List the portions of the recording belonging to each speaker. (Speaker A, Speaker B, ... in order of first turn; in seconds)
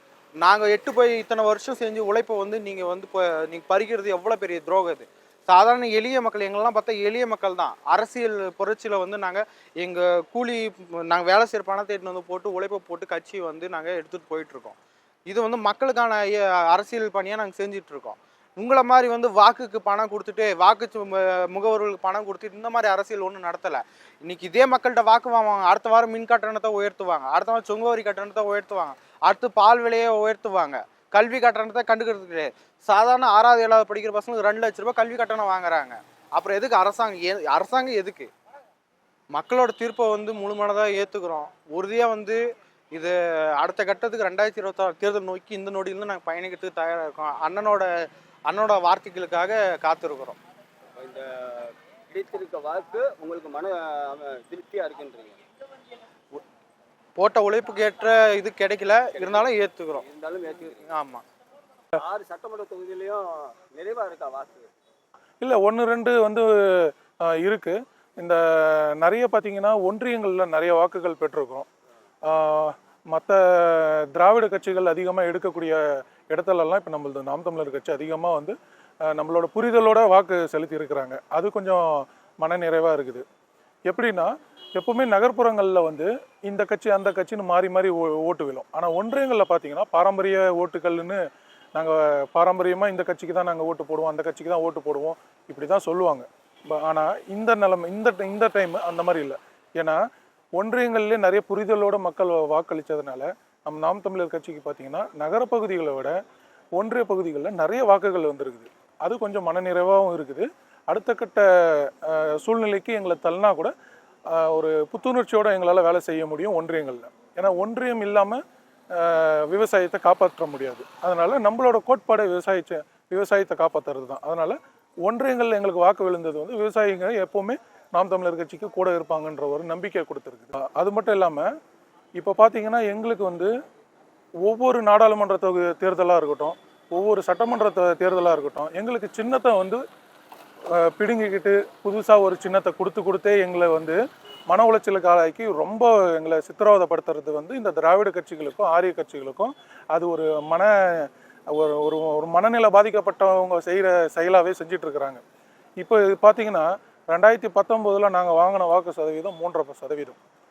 Speaker A: 0.4-38.3, 39.3-50.4, 57.2-60.0, 60.9-61.2
Speaker B: 51.0-55.4, 59.1-61.0, 62.0-64.7
Speaker C: 65.4-71.7, 72.2-83.2, 83.9-91.2, 91.7-100.0, 100.5-106.2, 106.8-113.7, 114.3-118.4, 118.9-131.5, 132.2-133.5, 134.4-139.8, 140.8-155.2, 155.8-160.2